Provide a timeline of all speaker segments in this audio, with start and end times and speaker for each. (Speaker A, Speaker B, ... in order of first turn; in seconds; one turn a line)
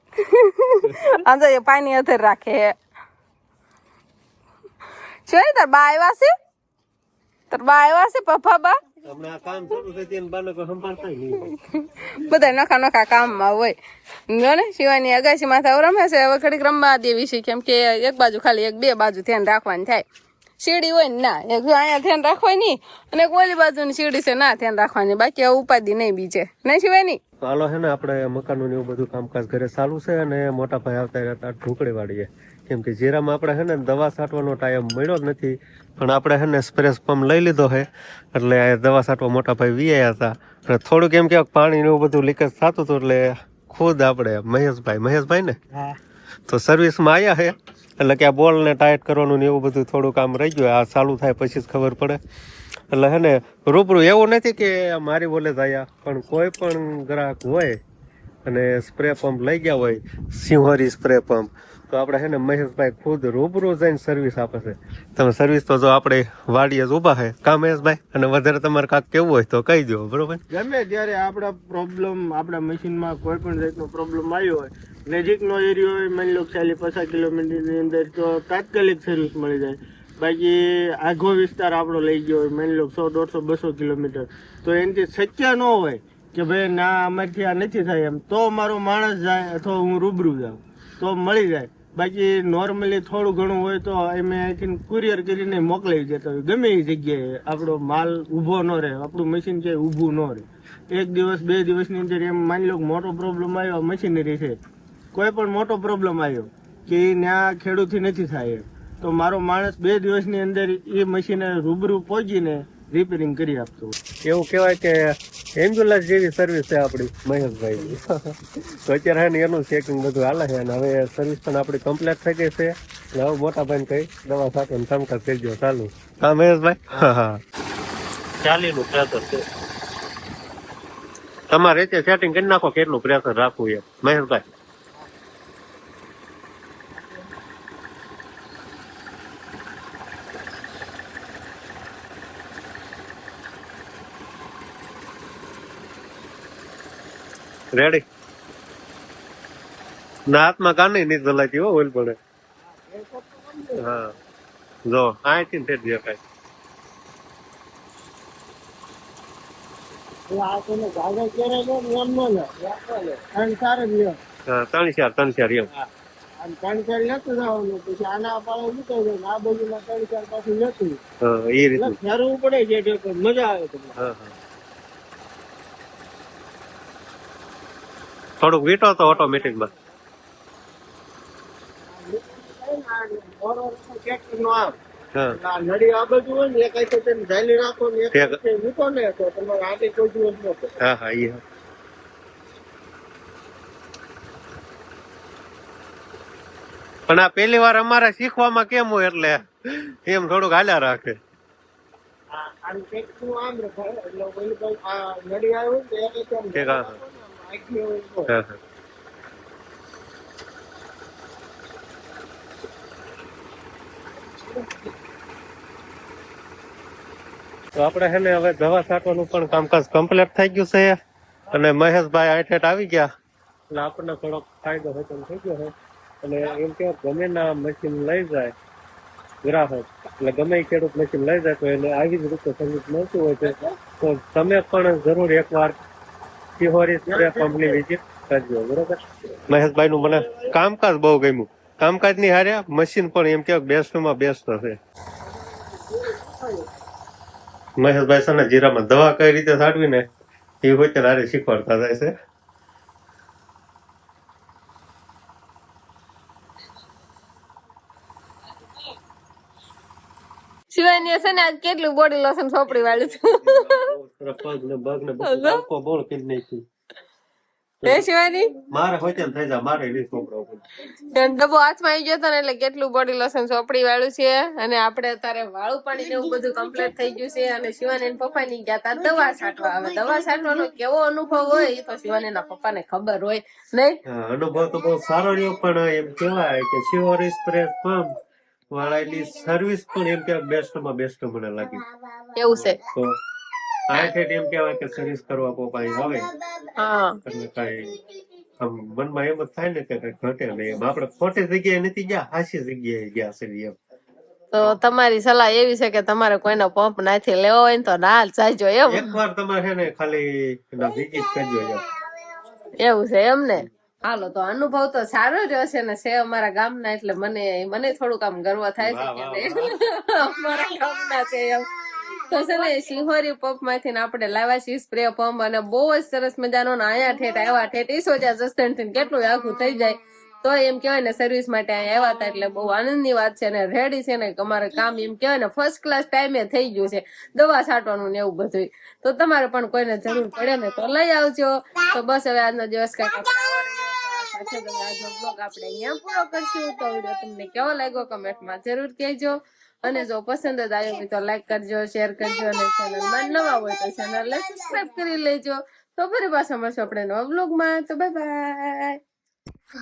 Speaker A: 0.1-2.8
Speaker A: 5.3-6.3
Speaker A: 7.5-8.8
Speaker B: 9.0-11.6
Speaker A: 11.5-13.8
Speaker A: 14.3-20.0
Speaker A: 20.6-27.2
Speaker B: 27.4-45.6
Speaker B: 46.5-52.2
Speaker B: 52.9-57.8
Speaker B: 58.5-70.4
Speaker C: 70.5-104.6
Speaker C: 105.1-113.9
Speaker B: 114.2-127.4
Speaker B: 128.4-129.4
Speaker B: 131.5-134.5
Speaker B: 147.7-148.0
Speaker B: 150.3-152.2
Speaker C: 152.7-154.1
Speaker B: 153.8-154.1
Speaker B: 154.9-156.2
Speaker C: 160.3-164.2
Speaker B: 164.5-165.7
Speaker C: 166.4-171.0
Speaker B: 171.2-172.0
Speaker C: 171.8-174.0
Speaker B: 174.0-174.3
Speaker B: 178.4-179.7
Speaker C: 179.1-179.7
Speaker C: 181.9-184.7
Speaker C: 185.3-190.8
Speaker B: 190.8-191.4
Speaker B: 197.1-201.2
Speaker C: 202.3-208.3
Speaker B: 206.5-207.0
Speaker B: 208.3-208.6
Speaker C: 214.4-214.7
Speaker B: 217.8-221.0
Speaker B: 221.5-223.1
Speaker B: 223.7-228.5
Speaker B: 229.4-235.8
Speaker C: 233.4-233.8
Speaker B: 236.6-244.8
Speaker C: 237.1-237.8
Speaker C: 240.0-240.5
Speaker C: 245.2-246.7
Speaker B: 247.8-250.1
Speaker B: 250.6-252.1
Speaker A: 260.7-263.9
Speaker B: 262.7-266.6
Speaker A: 265.2-265.6
Speaker A: 267.9-268.5
Speaker B: 268.7-270.6
Speaker A: 271.0-284.0
Speaker B: 284.1-288.1
Speaker B: 288.7-291.9
Speaker A: 292.4-292.8
Speaker B: 292.6-293.1
Speaker B: 293.9-296.3
Speaker A: 296.8-297.2
Speaker B: 297.2-298.0
Speaker B: 298.6-303.8
Speaker A: 304.5-309.2
Speaker B: 308.9-311.8
Speaker A: 312.8-359.0
Speaker B: 318.8-319.7